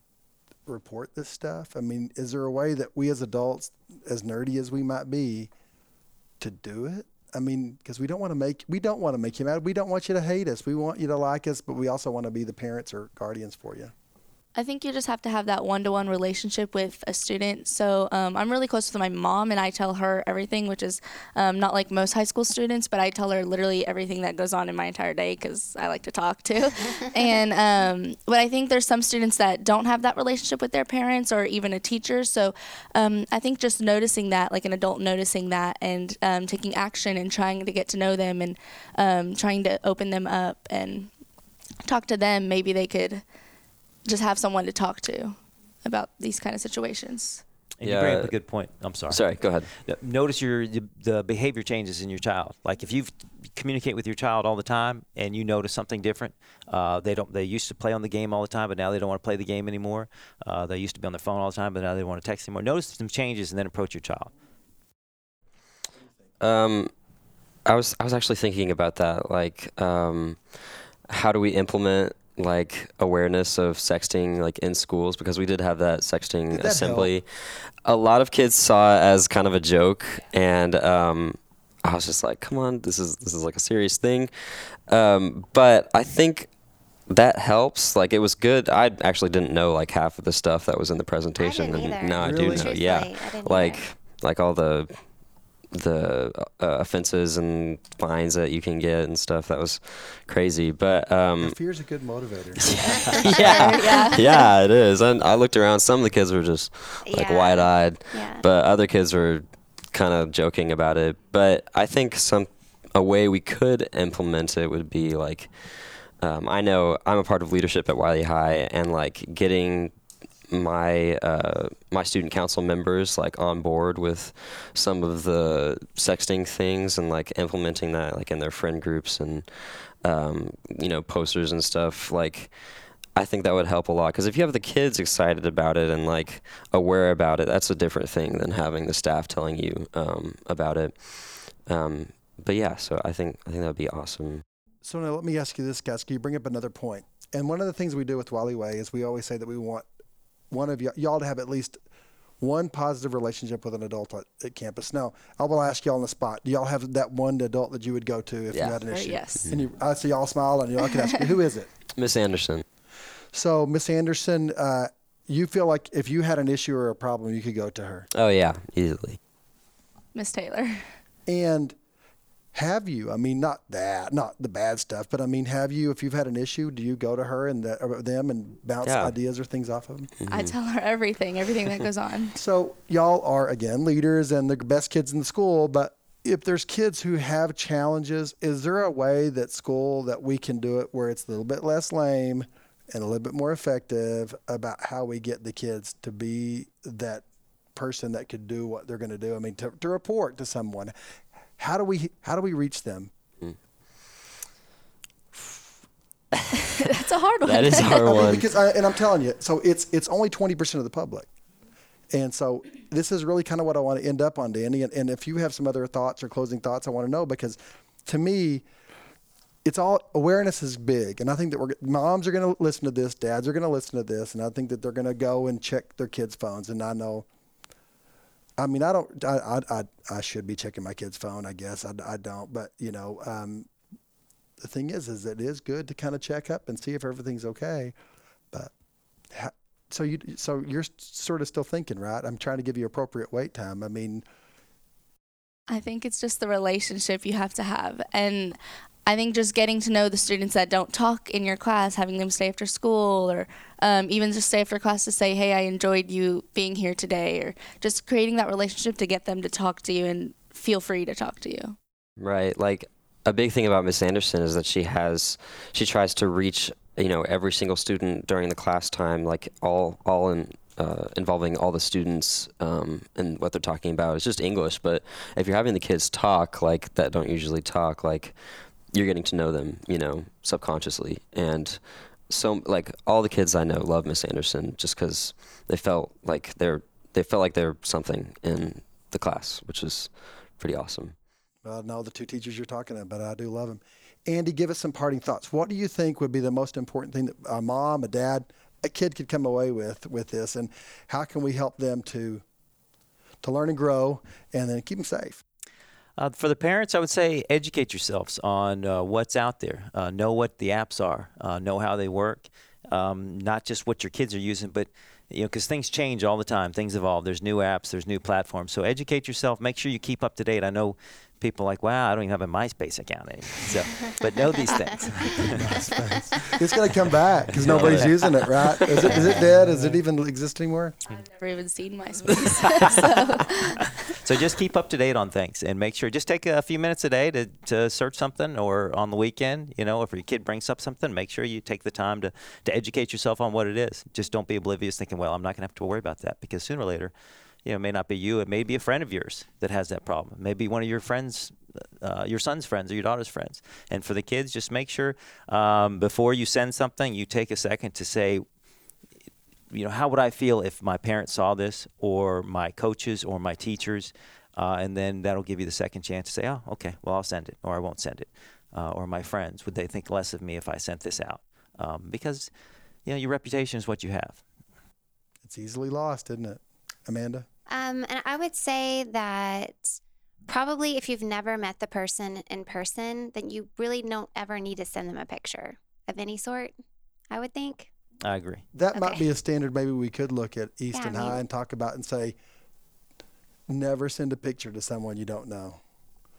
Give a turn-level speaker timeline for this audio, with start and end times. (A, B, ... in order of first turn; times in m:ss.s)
0:00.6-0:05.5 A
0:06.4-0:13.9 A
0:14.6-0:41.1 B
0:41.8-0:43.2 B
0:44.0-0:47.4 B
0:47.8-0:49.2 C
0:47.8-0:48.3 D
0:49.1-0:49.7 D
0:49.7-1:04.3 C
1:06.4-1:06.9 D
1:07.6-1:26.5 D
1:16.5-1:17.1 A
1:27.1-1:34.9 D
1:31.4-1:33.8 E
1:32.2-1:32.7 A
1:35.7-1:41.6 D
1:41.4-1:42.7 A
1:42.6-1:59.9 D
1:43.0-1:44.4 B
1:43.4-1:44.1 E
1:47.0-1:48.4 E
2:00.5-2:12.5 D
2:13.1-2:24.4 D
2:24.8-2:29.9 A
2:30.5-2:31.8 A
2:32.4-2:41.7 A
2:38.5-2:38.8 D
2:38.9-2:39.5 B
2:41.9-2:42.6 D
2:43.3-2:48.1 A
2:48.1-2:49.2 D
2:50.1-2:50.9 B
2:51.3-2:51.7 A
2:52.5-3:00.1 A
2:58.8-2:59.1 D
3:00.2-3:00.5 D
3:00.3-3:02.4 B
3:02.4-3:20.9 A
3:21.6-3:23.1 A
3:26.5-3:28.3 B
3:27.4-3:28.4 D
3:27.9-3:31.3 A
3:32.1-3:38.6 A
3:39.6-3:47.2 A
3:48.6-3:53.7 A
3:54.6-3:57.9 A
3:59.3-4:04.2 A
4:05.7-4:21.8 B
4:22.2-4:38.4 D
4:38.9-4:51.1 D
4:51.6-5:02.4 A
5:03.4-5:05.4 A
5:06.2-5:25.6 C
5:25.4-5:31.0 A
5:27.5-5:29.9 C
5:27.7-5:28.0 D
5:31.1-5:34.1 B
5:34.0-5:47.1 C
5:47.6-5:58.4 C
5:59.7-6:12.5 C
6:13.0-6:14.4 C
6:15.4-6:17.5 A
6:17.7-6:19.9 E
6:20.5-6:26.7 E
6:27.3-6:27.9 E
6:28.2-6:28.6 C
6:28.7-6:32.4 A
6:28.9-6:29.2 E
6:30.9-6:31.4 E
6:33.7-6:35.8 A